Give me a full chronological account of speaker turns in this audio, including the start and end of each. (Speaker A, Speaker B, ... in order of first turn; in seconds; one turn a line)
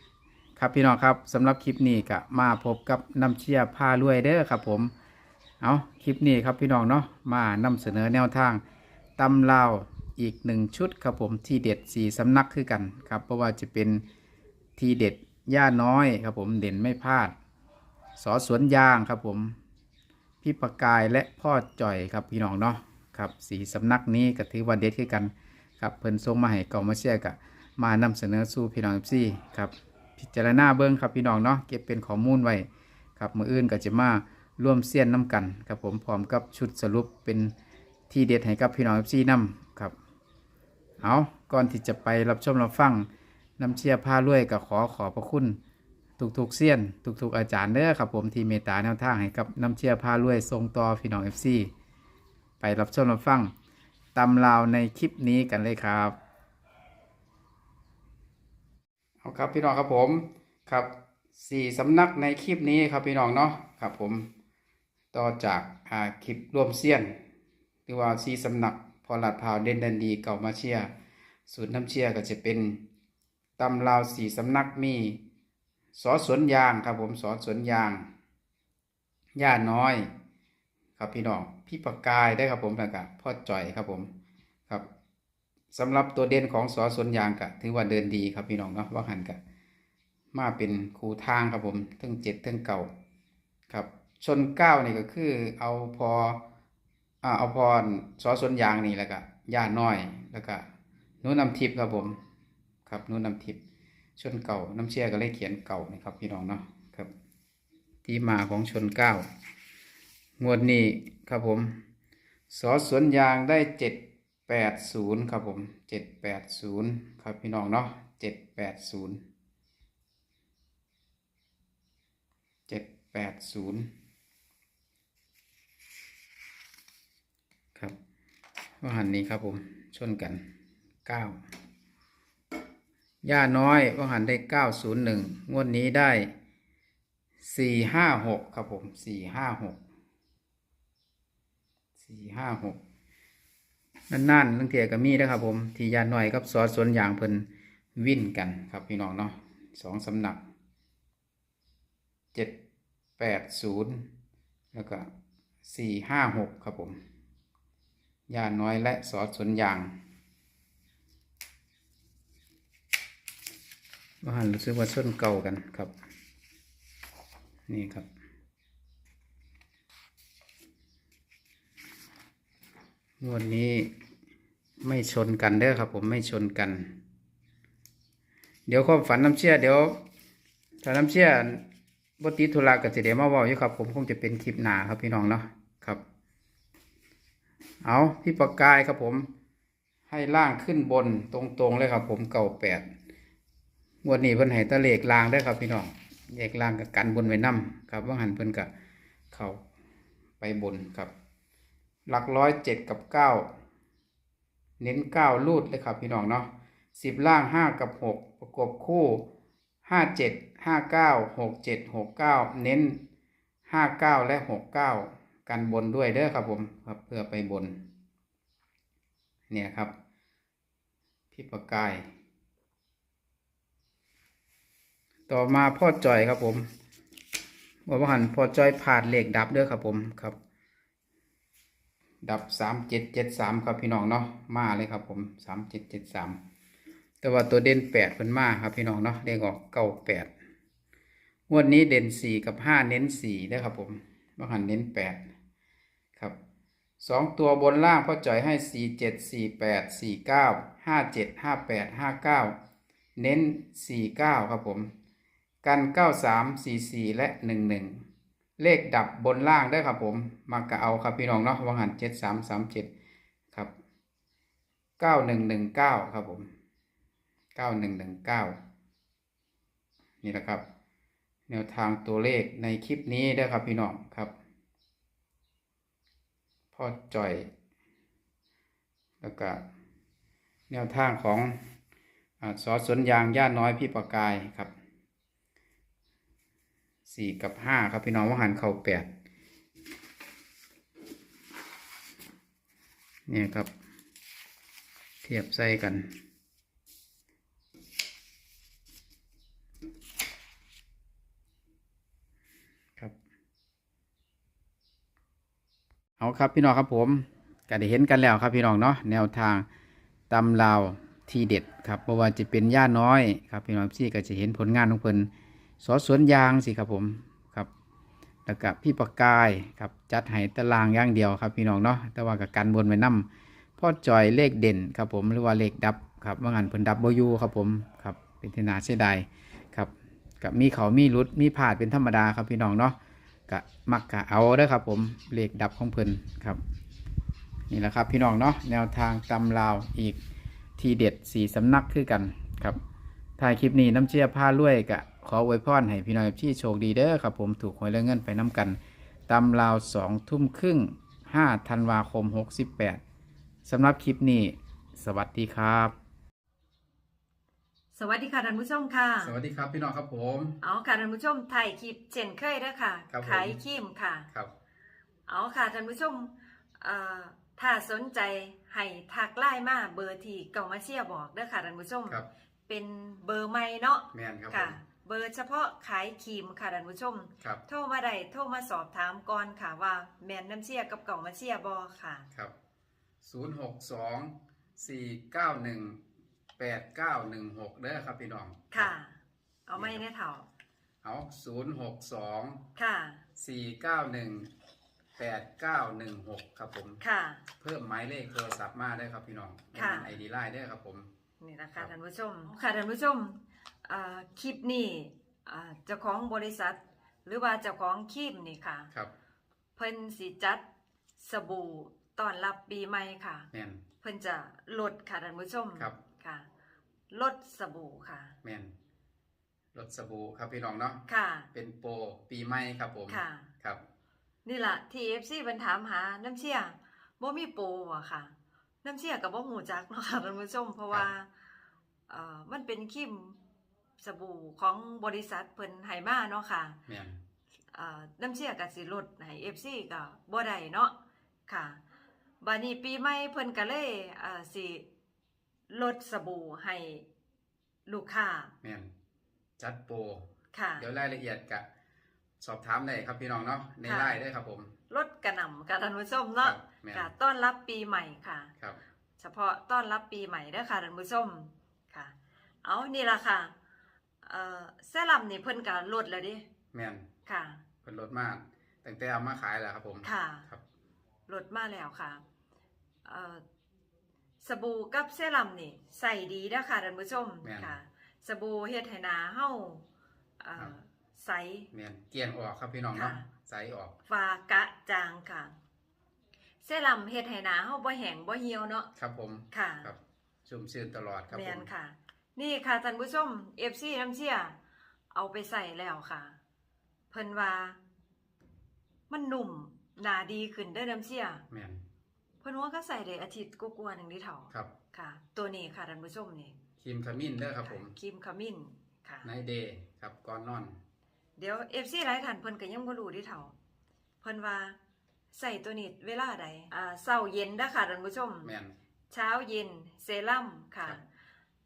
Speaker A: 0.6-4.9
Speaker A: 5.6-8.6
Speaker A: 9.2-14.0
Speaker A: 14.8-17.3
Speaker A: 18.2-19.6
Speaker A: 20.4-32.7
Speaker A: 33.2-37.5
Speaker A: 38.1-40.0
Speaker A: 41.0-43.1
Speaker A: 43.6-45.6
Speaker A: 46.2-51.7
Speaker A: 52.6-53.5
Speaker A: 54.1-56.2
Speaker A: 59.2-64.3
Speaker A: 65.1-67.2
Speaker A: 67.9-70.9
Speaker A: 71.5-72.8
Speaker A: 73.6-75.2
Speaker A: 76.0-78.1
Speaker A: 79.4-80.1
Speaker A: 81.0-84.1
Speaker A: 85.7-89.4
Speaker A: 90.3-92.9
Speaker A: 93.7-96.4
Speaker A: 97.2-100.7
Speaker A: 101.2-102.2
Speaker A: 102.9-103.6
Speaker A: 104.2-107.1
Speaker A: 108.0-109.3
Speaker A: 110.4-111.8
Speaker A: 112.5-119.2
Speaker A: 122.7-123.9
Speaker A: 128.8-130.5
Speaker A: 131.1-131.4
Speaker A: 133.2-136.3
Speaker A: 137.4-139.8
Speaker A: 142.0-142.8
Speaker A: 144.1-150.4
Speaker A: 153.2-154.1
Speaker A: 154.7-155.1
Speaker A: 155.7-157.0
Speaker A: 158.3-160.0
Speaker A: 164.2-165.9
Speaker A: 167.7-168.1
Speaker A: 173.2-173.9
Speaker A: 174.8-177.0
Speaker A: 178.7-180.0
Speaker A: 180.8-181.6
Speaker A: 182.2-186.0
Speaker A: 187.8-189.3
Speaker A: 190.1-192.9
Speaker A: 194.0-198.7
Speaker A: 199.3-199.6
Speaker A: 200.4-201.1
Speaker A: 202.1-203.5
Speaker A: 204.8-209.3
Speaker A: 209.9-213.0
Speaker A: 213.7-217.8
Speaker A: 219.5-219.9
Speaker A: 221.3-222.1
Speaker A: 225.3-226.7
Speaker A: 227.9-230.4
Speaker A: 232.2-236.4
Speaker A: 237.2-240.3
Speaker A: 241.5-245.3
Speaker A: 247.0-252.6
Speaker A: 253.2-254.9
Speaker A: 255.6-258.1
Speaker A: 258.6-262.9
Speaker A: 265.0-266.5
Speaker A: 267.6-268.6
Speaker A: 270.2-270.6
Speaker A: 271.5-274.3
Speaker A: 276.7-277.5
Speaker A: 279.2-279.6
Speaker A: 280.7-281.6
Speaker A: 282.4-284.7
Speaker A: 287.1-289.1
Speaker A: 293.3-293.7
Speaker A: 295.2-296.2
Speaker A: 306.2-309.7
Speaker A: 310.3-315.3
Speaker A: 315.8-317.7
Speaker A: 318.5-333.0
Speaker A: 333.5-336.6
Speaker A: 337.7-340.2
Speaker A: 340.8-342.8
Speaker A: 343.4-353.0
Speaker A: 353.7-355.9
Speaker B: 357.9-359.3
Speaker A: 359.2-360.6
Speaker B: 360.6-364.3
Speaker A: 363.1-363.6
Speaker B: 365.3-382.3
Speaker A: 374.1-374.8
Speaker A: 383.2-386.0
Speaker A: 386.6-388.9
Speaker B: 388.7-390.5
Speaker A: 389.8-390.0
Speaker A: 391.0-392.6
Speaker B: 392.8-393.2
Speaker A: 393.4-394.5
Speaker A: 395.2-397.0
Speaker B: 397.0-397.5
Speaker A: 397.6-401.1
Speaker B: 399.7-400.2
Speaker B: 401.4-408.9
Speaker B: 409.8-410.6
Speaker B: 411.2-413.5
Speaker A: 413.5-413.8
Speaker B: 414.0-416.5
Speaker B: 417.1-418.4
Speaker A: 418.4-418.7
Speaker A: 419.7-421.0
Speaker B: 421.1-421.5
Speaker A: 421.5-423.8
Speaker B: 423.1-423.5
Speaker B: 424.4-431.3
Speaker B: 432.1-433.4
Speaker B: 434.0-436.8
Speaker A: 436.9-437.2
Speaker B: 437.7-440.9
Speaker B: 441.5-441.8
Speaker B: 442.4-444.9
Speaker B: 445.7-447.1
Speaker B: 447.9-448.5
Speaker A: 448.6-448.9
Speaker A: 449.6-450.3
Speaker B: 450.5-450.9
Speaker A: 450.8-451.6
Speaker A: 452.4-454.7
Speaker B: 453.9-454.2
Speaker B: 454.9-458.5
Speaker A: 456.4-457.1
Speaker B: 459.2-463.5
Speaker B: 464.2-466.5
Speaker A: 466.7-467.1
Speaker B: 467.3-467.6
Speaker A: 467.8-470.6
Speaker B: 470.0-470.5
Speaker B: 471.3-472.2
Speaker B: 473.1-473.4
Speaker B: 474.4-479.9
Speaker A: 477.4-477.8
Speaker B: 480.4-481.7
Speaker A: 481.7-484.0
Speaker B: 482.9-483.3
Speaker B: 484.1-485.6
Speaker B: 486.6-488.9
Speaker A: 489.0-491.7
Speaker B: 489.5-489.9
Speaker B: 491.3-494.6
Speaker B: 495.1-496.4
Speaker B: 497.1-497.8
Speaker B: 499.1-501.4
Speaker A: 501.5-501.8
Speaker B: 502.4-506.6
Speaker A: 506.8-507.9
Speaker B: 507.6-509.3
Speaker A: 509.2-510.8
Speaker B: 511.4-513.5
Speaker B: 514.2-514.8
Speaker B: 515.3-518.5
Speaker A: 518.4-518.8
Speaker B: 519.1-521.0